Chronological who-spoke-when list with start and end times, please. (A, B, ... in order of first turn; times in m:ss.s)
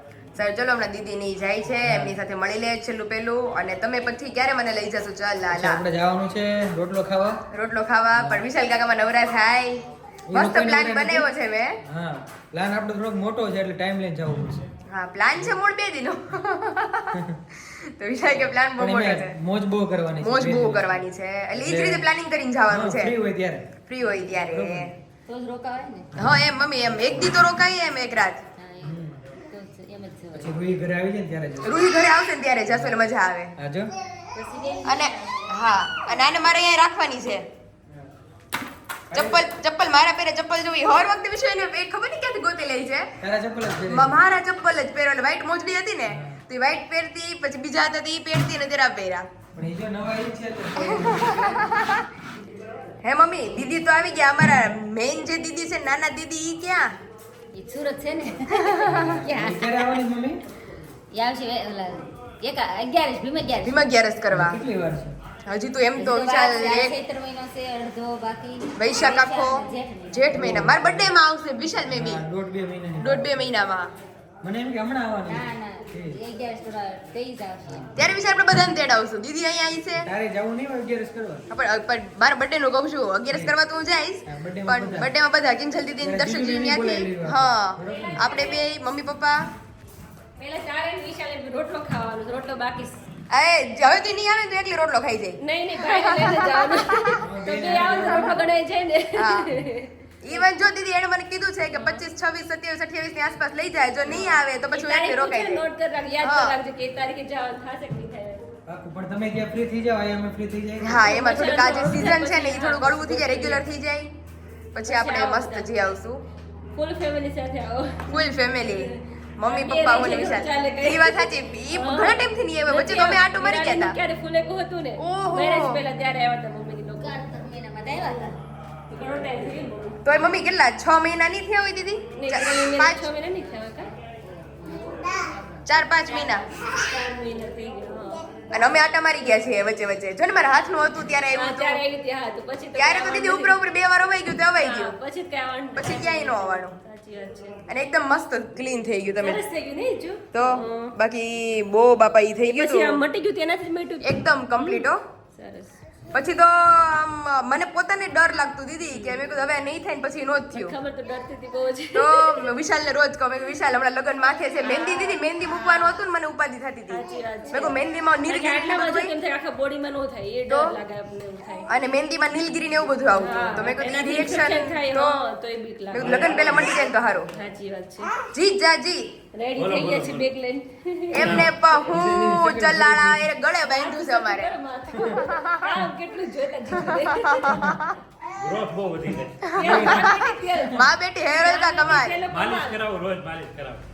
0:00.4-0:05.8 A
0:01.8-0:02.2 B
0:05.5-0:07.4 B
0:07.5-0:11.8 A
0:08.2-0:08.4 B
0:10.3-0:11.3 B
0:11.9-0:14.7 B
0:14.9-0:19.3 A
0:18.8-0:21.0 B
0:20.2-0:23.1 A
0:21.5-0:22.0 B
0:22.7-0:23.7 B
0:23.9-0:24.9 A
0:24.4-0:24.9 B
0:25.3-0:26.1 C
0:26.2-0:28.4 A
0:28.6-0:30.6 C
0:28.8-0:29.2 B
0:30.4-0:31.8 B
0:31.6-0:33.5 A
0:32.7-0:33.0 B
0:33.6-0:33.9 B
0:34.3-0:36.3 C
0:34.9-0:37.5 A
0:39.1-0:39.4 B
0:39.1-0:43.1 A
0:43.2-0:44.2 B
0:43.9-0:49.3 A
0:46.1-0:46.4 B
0:49.6-0:51.5 B
0:50.8-0:52.1 A
0:53.0-0:56.9 A
0:57.5-0:59.9 C
0:58.5-0:59.2 A
0:58.9-1:00.4 B
1:01.1-1:03.8 C
1:03.6-1:04.6 A
1:04.3-1:05.2 B
1:05.5-1:07.0 A
1:06.0-1:10.4 C
1:08.8-1:12.2 A
1:10.3-1:11.1 B
1:11.9-1:13.4 B
1:13.0-1:13.9 A
1:14.4-1:16.2 B
1:15.3-1:18.0 C
1:18.0-1:20.1 A
1:20.0-1:21.4 B
1:21.5-1:29.5 A
1:24.3-1:25.1 B
1:26.0-1:28.3 B
1:27.8-1:28.7 D
1:30.4-1:33.0 D
1:33.3-1:37.2 A
1:35.4-1:40.5 D
1:37.2-1:38.4 B
1:39.2-1:39.6 A
1:40.2-1:45.6 A
1:41.7-1:42.0 D
1:44.1-1:48.4 D
1:46.2-1:46.6 A
1:48.7-1:51.1 B
1:50.8-1:54.1 A
1:51.0-1:53.6 D
1:54.7-1:56.2 A
1:54.9-1:55.7 D
1:56.7-2:07.2 D
1:58.1-2:04.0 A
2:05.0-2:05.8 A
2:07.0-2:08.3 C
2:08.9-2:10.5 D
2:10.0-2:13.1 A
2:12.2-2:13.9 D
2:13.4-2:15.7 C
2:15.7-2:16.4 A
2:16.1-2:18.3 D
2:18.5-2:21.8 A
2:21.3-2:23.6 D
2:22.8-2:25.0 A
2:24.6-2:27.6 D
2:25.8-2:26.8 A
2:27.7-2:29.4 A
2:29.2-2:31.0 D
2:30.3-2:33.0 A
2:32.5-2:35.8 D
2:34.0-2:35.0 A
2:36.1-2:40.8 A
2:38.9-2:39.4 D
2:40.5-2:42.5 D
2:41.9-2:49.1 A
2:44.6-2:46.0 D
2:46.9-2:51.7 D
2:50.5-2:50.8 A
2:51.7-2:55.2 A
2:53.2-2:58.1 D
2:55.9-2:57.3 A
2:56.0-2:56.8 E
2:58.3-2:59.1 A
2:59.3-3:01.5 D
2:59.6-3:00.3 E
3:01.1-3:04.5 A
3:01.2-3:02.1 E
3:01.9-3:03.3 B
3:03.6-3:08.0 D
3:05.1-3:05.8 A
3:06.9-3:07.9 A
3:08.4-3:09.4 E
3:09.4-3:12.2 A
3:09.5-3:12.8 D
3:09.6-3:10.1 B
3:11.8-3:13.8 E